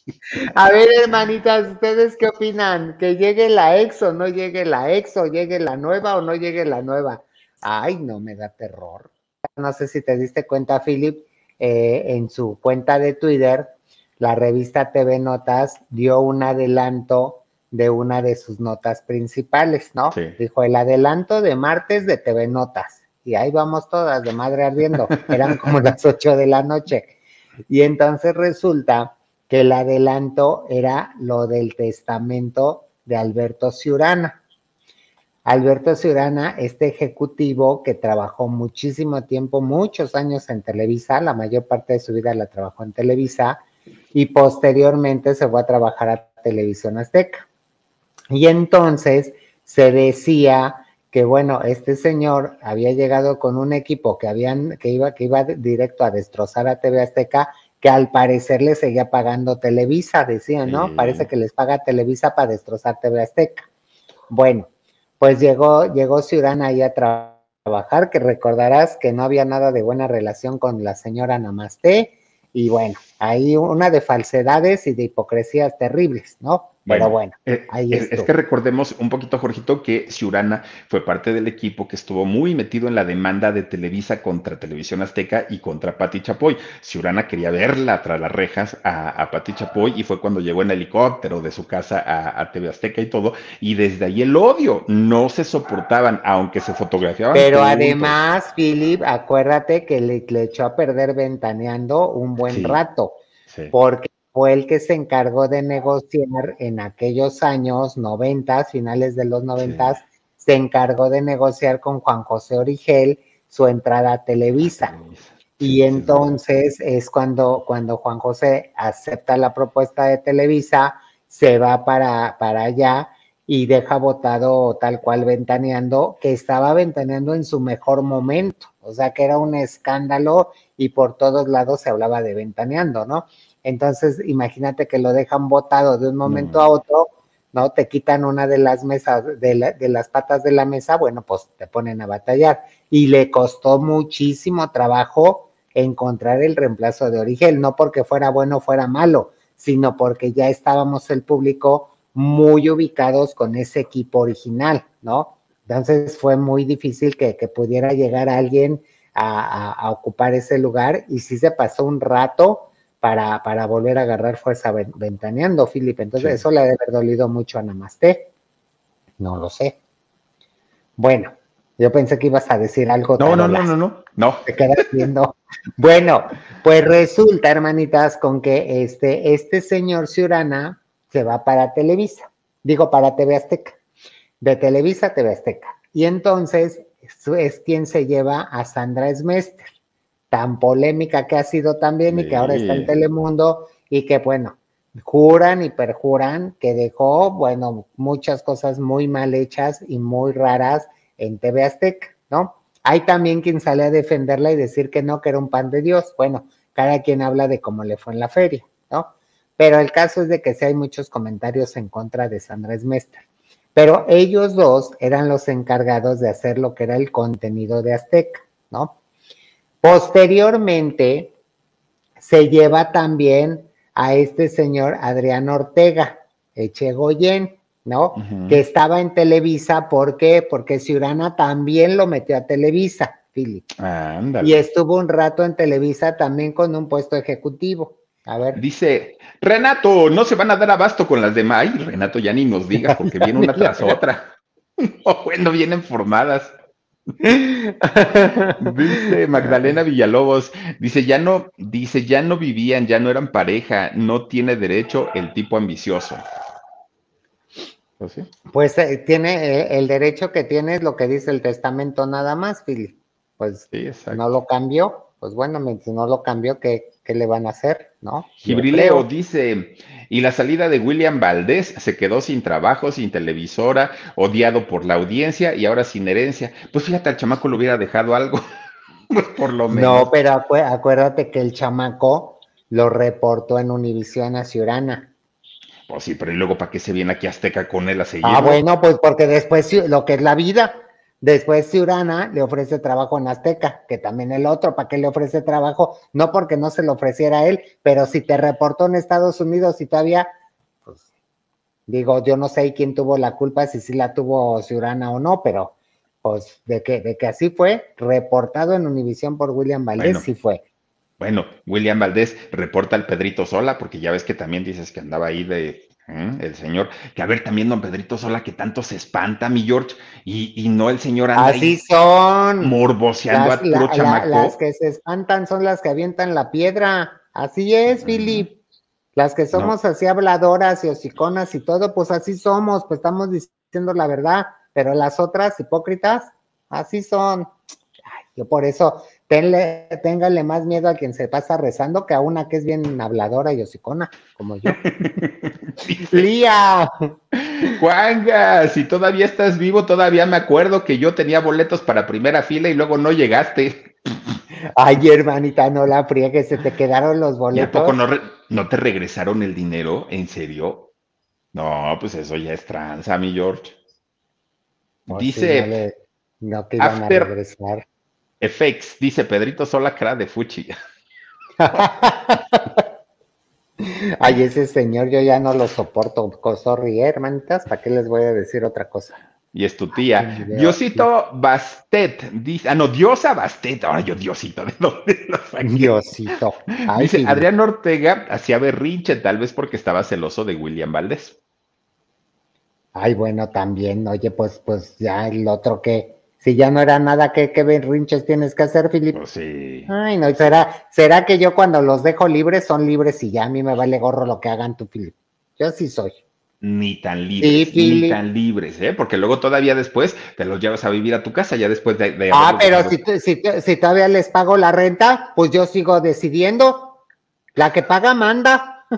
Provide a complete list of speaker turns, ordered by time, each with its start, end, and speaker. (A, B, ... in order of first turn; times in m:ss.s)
0:00.4-0:27.2 A
0:27.7-0:34.4 A
0:35.4-0:43.6 A
0:44.1-0:47.5 A
0:48.3-1:03.7 A
1:00.7-1:01.3 B
1:04.3-1:18.3 A
1:16.9-1:38.2 B
1:37.3-1:43.2 A
1:42.5-1:42.8 B
1:43.7-1:54.9 A
1:49.6-1:50.0 B
1:54.6-1:56.4 B
1:55.6-2:48.3 A
2:16.3-2:16.7 B
2:49.2-2:49.8 A
2:51.0-2:53.7 A
2:53.2-2:54.6 B
2:54.5-3:03.8 A
3:04.4-3:09.7 A
3:10.3-3:39.0 A
3:12.1-3:12.9 B
3:39.8-3:41.4 A
3:42.2-3:53.7 A
3:48.2-3:48.6 B
3:53.8-3:54.6 B
3:54.4-3:58.6 A
3:58.6-4:06.6 B
4:02.8-4:04.0 A
4:07.2-4:09.5 A
4:08.6-4:16.2 B
4:18.0-4:18.3 B
4:18.5-4:29.1 A
4:23.7-4:24.2 B
4:28.4-4:38.4 B
4:39.1-4:40.1 B
4:39.7-4:45.1 A
4:45.9-4:48.6 B
4:48.2-5:00.3 A
5:01.9-5:10.6 A
5:10.0-5:10.3 B
5:11.2-5:21.8 B
5:21.4-5:22.7 A
5:22.6-5:24.6 B
5:23.3-5:28.6 A
5:28.0-5:28.5 B
5:29.2-5:37.5 A
5:38.1-5:45.2 A
5:44.8-5:46.3 B
5:46.1-5:47.1 A
5:47.4-5:54.4 B
5:54.8-5:58.0 A
5:57.5-6:00.9 B
6:01.5-6:03.8 B
6:05.1-6:05.7 B
6:05.1-6:07.8 A
6:06.8-6:07.3 B
6:08.4-6:10.8 B
6:11.6-6:12.8 A
6:13.8-6:19.2 A
6:19.5-6:25.9 B
6:19.9-6:21.1 A
6:25.6-6:27.4 A
6:26.9-6:31.4 B
6:33.0-6:39.2 A
6:39.1-6:40.4 B
6:39.9-6:46.2 A
6:46.6-6:53.0 B
6:47.4-6:48.2 A
6:52.3-6:57.0 A
6:57.6-6:58.8 A